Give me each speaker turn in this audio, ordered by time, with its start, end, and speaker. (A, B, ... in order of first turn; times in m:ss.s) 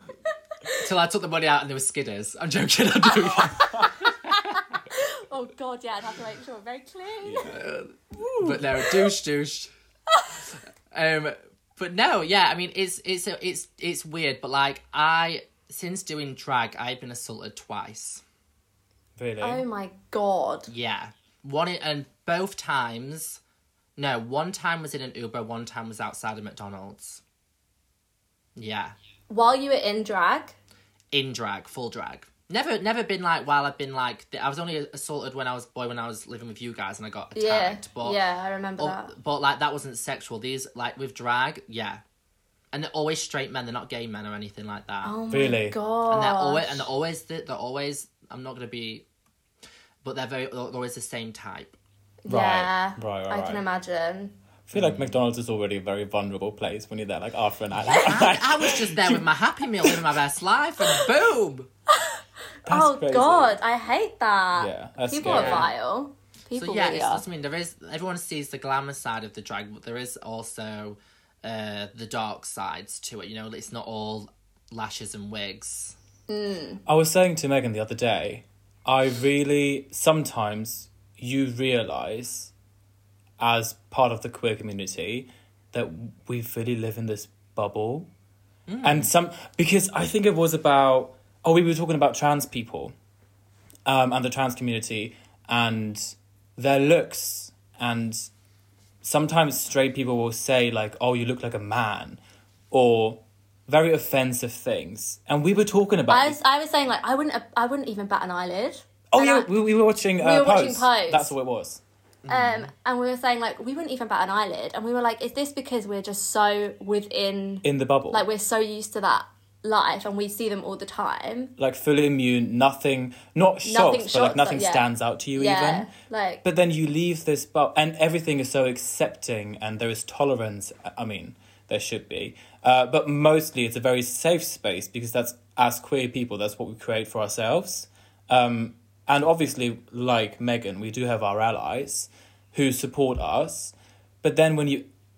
0:00.8-0:04.1 A
0:03.3-0:04.1 B
0:03.4-0:07.6 C
0:07.2-0:07.6 B
0:07.4-0:09.7 A
0:08.2-0:08.8 B
0:10.9-0:18.2 A
0:19.2-0:19.6 B
0:19.4-0:20.7 C
0:20.7-0:23.4 A
0:24.0-0:27.2 A
0:28.6-0:28.9 A
0:29.3-0:30.6 C
0:31.1-0:38.2 A
0:37.3-0:39.1 C
0:38.8-0:42.0 A
0:42.7-0:45.2 A
0:45.0-0:46.9 C
0:45.3-0:45.8 B
0:46.1-0:49.0 A
0:50.0-0:51.8 A
0:52.2-0:54.4 C
0:52.3-0:53.6 B
0:54.7-0:59.2 B
0:54.7-0:55.2 A
0:57.8-1:01.7 A
1:02.0-1:07.2 C
1:02.6-1:03.6 B
1:04.6-1:05.7 B
1:05.2-1:05.7 A
1:06.6-1:16.0 A
1:16.3-1:16.8 C
1:16.8-1:22.5 B
1:23.4-1:28.1 B
1:28.7-1:29.1 A
1:28.8-1:32.9 B
1:33.8-1:38.3 B
1:39.0-1:42.2 B
1:42.7-1:46.4 B
1:46.1-1:49.5 C
1:49.1-1:51.8 B
1:50.2-1:51.3 C
1:52.2-1:52.7 A
1:52.3-2:01.5 C
1:57.6-1:58.2 B
2:01.6-2:05.9 B
2:03.6-2:06.4 C
2:06.4-2:24.9 B